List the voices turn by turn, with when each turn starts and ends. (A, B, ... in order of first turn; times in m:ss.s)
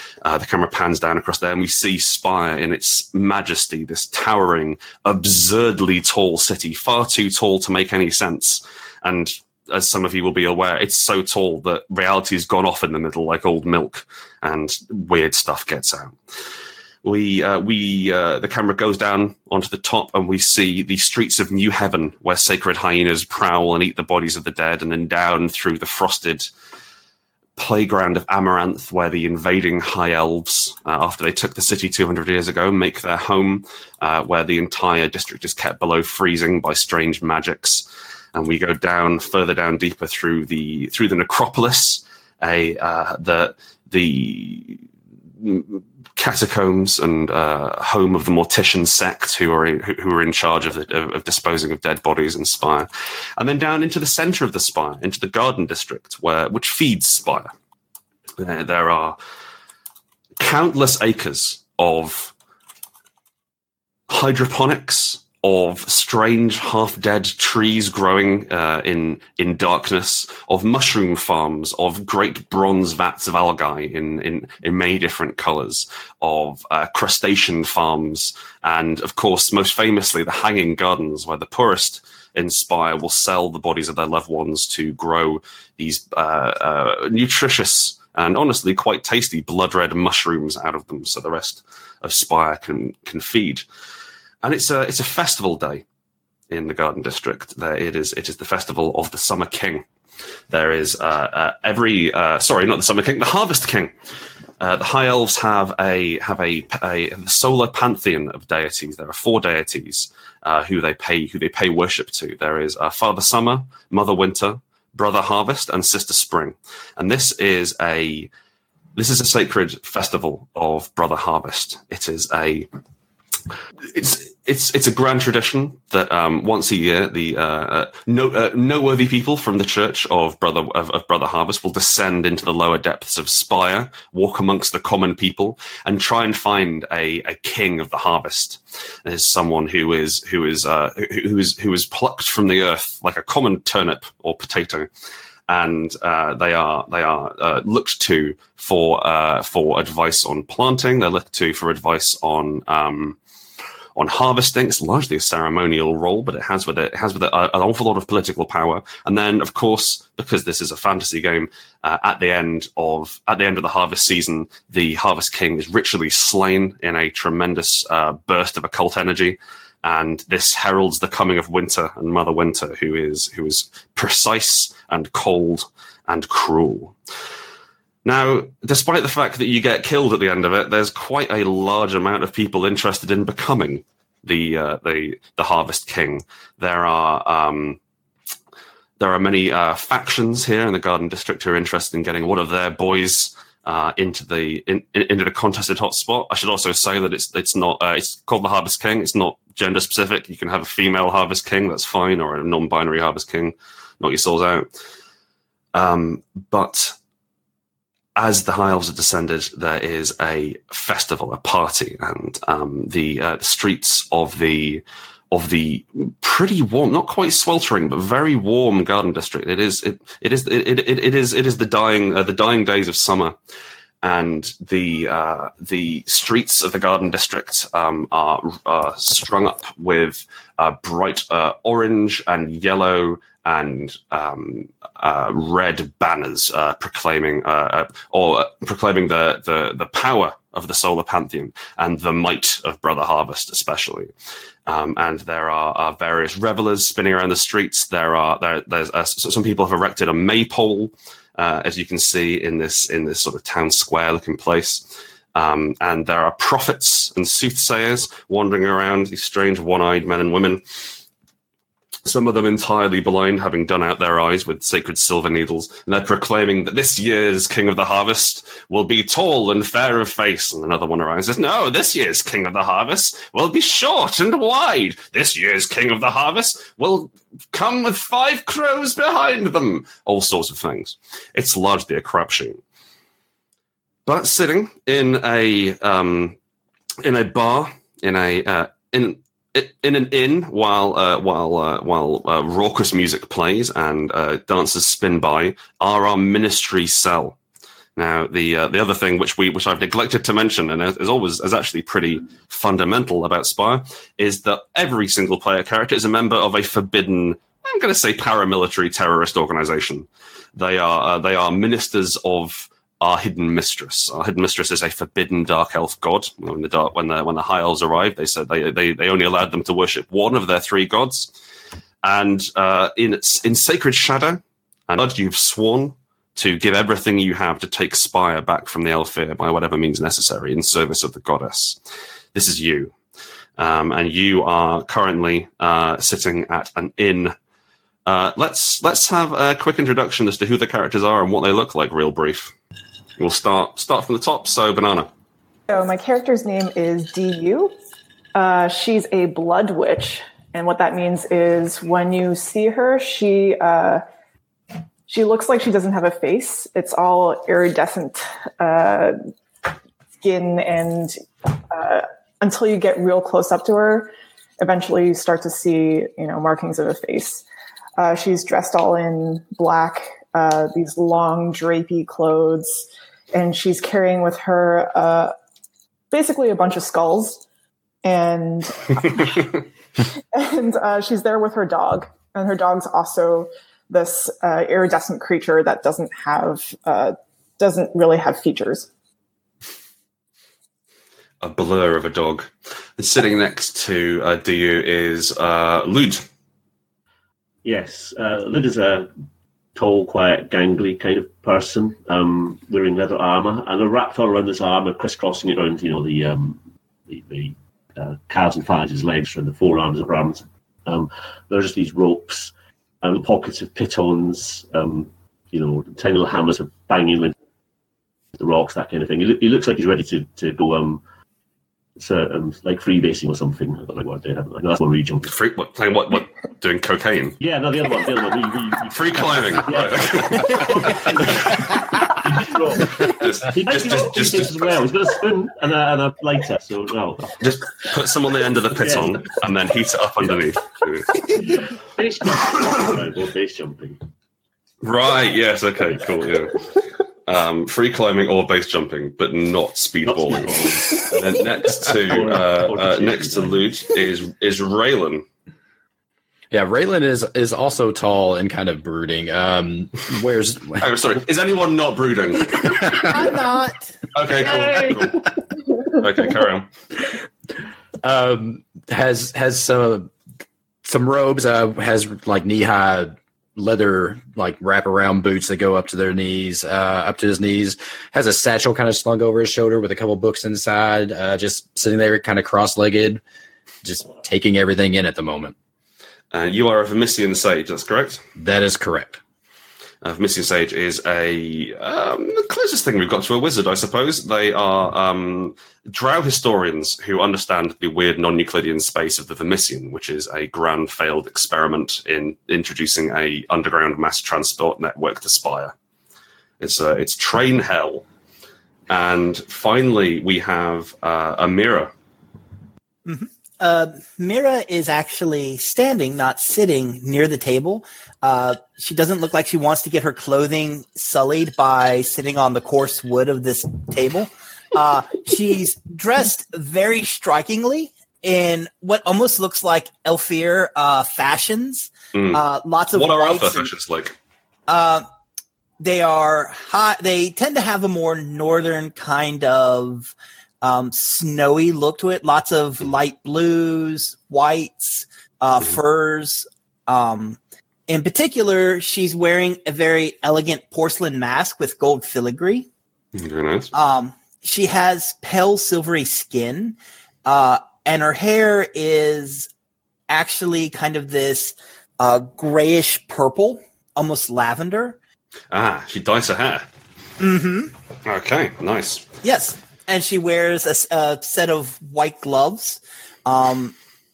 0:00.2-0:16.2 A
0:17.0-0:26.5 A
0:27.6-0:44.8 A
0:45.4-0:57.5 A
0:58.4-0:59.2 A
1:00.4-1:02.3 A
1:04.1-1:33.6 A
1:34.4-1:35.8 A
1:36.5-1:39.8 A
1:40.5-1:43.9 A
1:44.6-1:58.3 A
1:59.0-2:02.7 A
2:03.9-2:24.9 A
2:25.5-2:33.2 A
2:34.0-2:57.0 A
2:58.0-3:07.8 A
3:09.0-3:24.7 A
3:25.7-3:27.0 A
3:28.2-3:43.4 A
3:44.0-4:04.1 A
4:04.7-4:20.6 A
4:22.0-4:42.6 A
4:44.0-4:46.4 A
4:47.0-4:57.4 A
4:58.0-5:21.3 A
5:22.0-5:31.8 A
5:32.3-5:32.9 A
5:33.6-5:37.4 A
5:38.0-5:42.5 A
5:43.2-5:45.1 A
5:45.7-5:47.7 B
5:48.4-5:54.0 B
5:55.1-5:59.2 B
6:00.2-6:07.4 B
6:08.0-6:15.3 B
6:16.1-6:17.4 B
6:18.0-6:19.6 B
6:20.1-6:28.9 B
6:31.4-6:36.2 A
6:37.6-6:39.1 C
6:39.8-6:57.4 C
6:58.4-7:01.0 C
7:02.0-7:05.3 C
7:05.2-7:07.4 A
7:07.4-7:17.4 C
7:08.9-7:11.7 A
7:13.0-7:14.8 A
7:17.4-7:21.2 A
7:18.8-7:19.2 C
7:21.2-7:24.0 C
7:24.8-7:26.6 A
7:27.2-7:35.2 A
7:30.0-7:33.6 C
7:36.5-7:40.9 D
7:40.8-7:43.1 A
7:42.9-7:43.9 E
7:44.1-7:45.2 A
7:44.4-7:44.9 E
7:46.0-7:46.7 A
7:48.0-7:50.1 D
7:50.8-8:03.2 D
8:03.8-8:05.5 D
8:06.3-8:08.2 A
8:08.4-8:09.2 D
8:10.0-8:25.7 A
8:26.6-8:28.0 A
8:28.9-8:31.9 A
8:33.0-8:53.7 E
8:52.1-8:54.2 A
8:54.7-8:55.0 E
8:55.8-9:12.7 E
9:13.1-9:13.7 A
9:13.7-9:19.5 E
9:20.1-9:25.0 E
9:25.5-9:26.7 A
9:27.2-9:27.7 E
9:28.0-9:29.0 A
9:29.2-9:33.8 E